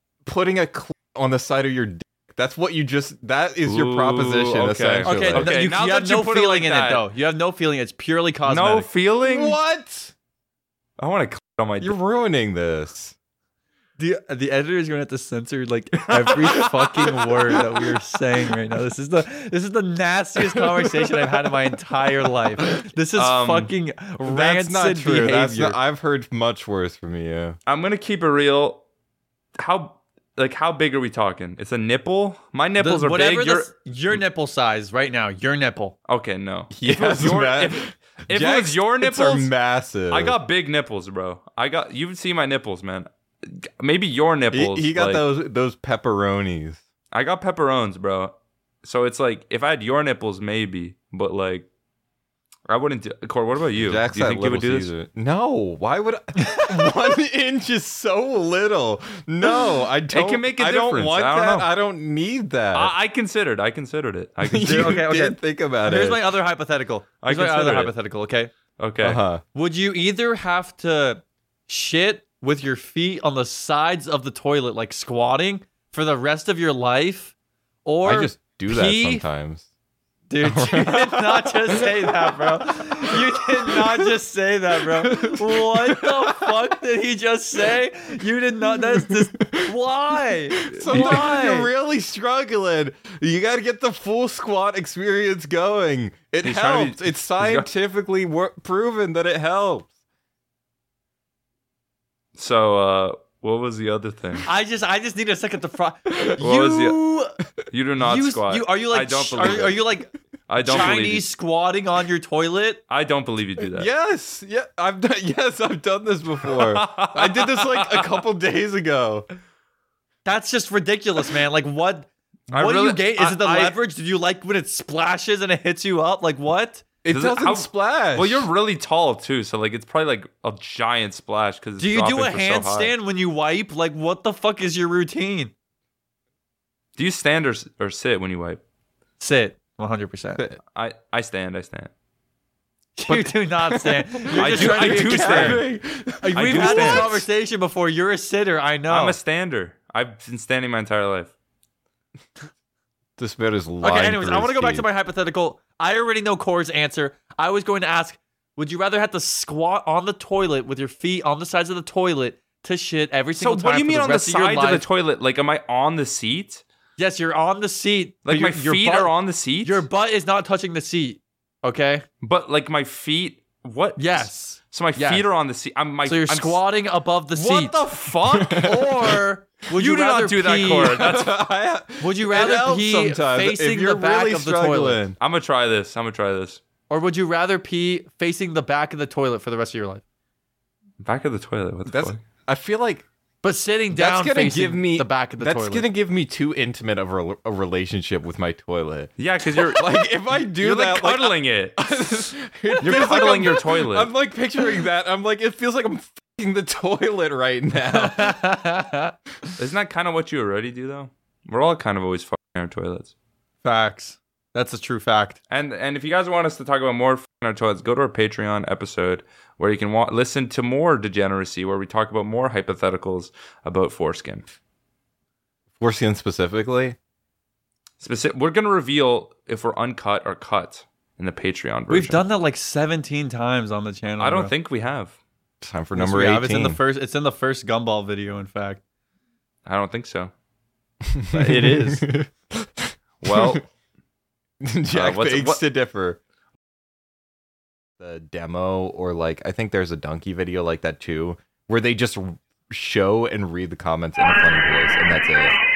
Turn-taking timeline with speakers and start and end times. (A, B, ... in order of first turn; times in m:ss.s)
0:00.3-0:05.5 A
0:03.6-0:07.0 B
0:05.0-0:08.9 C
0:08.4-0:09.6 B
0:09.2-0:10.1 A
0:11.0-0:12.0 B
0:11.8-0:13.2 A
0:14.0-0:25.8 C
0:16.0-0:17.2 B
0:20.6-0:21.1 A
0:23.2-0:23.7 B
0:24.2-0:27.6 A
0:27.7-0:28.8 B
0:29.6-0:33.7 B
0:32.8-0:36.0 C
0:36.1-0:39.5 B
0:36.7-0:40.4 A
0:40.1-0:45.2 B
0:44.5-0:46.8 A
0:47.1-0:51.7 B
0:52.7-0:54.9 B
0:53.8-1:02.9 A
0:56.4-0:57.1 C
1:00.1-1:01.7 B
1:02.7-1:05.0 B
1:04.4-1:06.2 A
1:04.6-1:08.5 C
1:07.2-1:07.9 B
1:08.8-1:09.2 B
1:09.0-1:09.4 A
1:09.5-1:17.3 C
1:17.8-1:19.3 C
1:18.0-1:19.7 A
1:20.3-1:31.7 C
1:20.4-1:24.1 A
1:24.8-1:26.5 A
1:28.8-1:29.7 A
1:30.7-1:31.3 B
1:30.7-1:39.9 A
1:36.4-1:37.7 B
1:42.4-1:44.5 B
1:44.5-1:47.4 C
1:46.4-1:47.0 B
1:47.7-1:49.8 B
1:48.0-1:52.8 C
1:50.5-1:51.3 B
1:52.9-1:53.9 B
1:53.6-1:59.3 A
1:56.5-1:58.1 B
2:00.2-2:06.8 C
2:02.5-2:03.8 B
2:07.0-2:08.5 A
2:07.1-2:12.9 B
2:11.8-2:15.5 C
2:17.0-2:18.6 B
2:19.2-2:20.4 C
2:20.7-2:21.9 B
2:23.0-2:29.2 C
2:23.1-2:27.2 A
2:24.4-2:25.6 B
2:26.3-2:27.2 B
2:28.9-2:31.3 B
2:33.2-2:34.9 A
2:33.8-2:44.8 C
2:43.4-2:46.6 B
2:47.0-2:52.0 C
2:48.3-2:49.8 B
2:52.2-2:56.6 B
2:54.0-2:55.2 C
2:56.0-2:57.8 C
2:57.4-2:58.7 B
2:58.4-2:59.2 A
2:58.4-3:01.1 C
2:59.7-3:01.3 B
3:00.9-3:05.2 A
3:02.0-3:05.0 C
3:05.2-3:06.6 B
3:06.9-3:10.0 C
3:11.0-3:12.2 B
3:11.9-3:13.1 A
3:13.4-3:15.9 C
3:13.9-3:28.6 A
3:19.2-3:21.8 B
3:22.8-3:24.1 B
3:27.9-3:29.1 C
3:29.6-3:33.1 B
3:33.6-3:35.4 C
3:35.5-3:44.4 B
3:45.8-3:47.0 A
3:48.0-3:52.2 B
3:51.9-3:54.5 C
3:54.2-3:55.1 B
3:55.6-3:56.8 A
3:56.0-3:58.8 C
3:59.6-4:00.3 B
4:01.1-4:03.6 A
4:01.3-4:02.0 B
4:03.2-4:03.7 B
4:04.6-4:06.2 A
4:04.9-4:05.6 B
4:08.0-4:15.6 A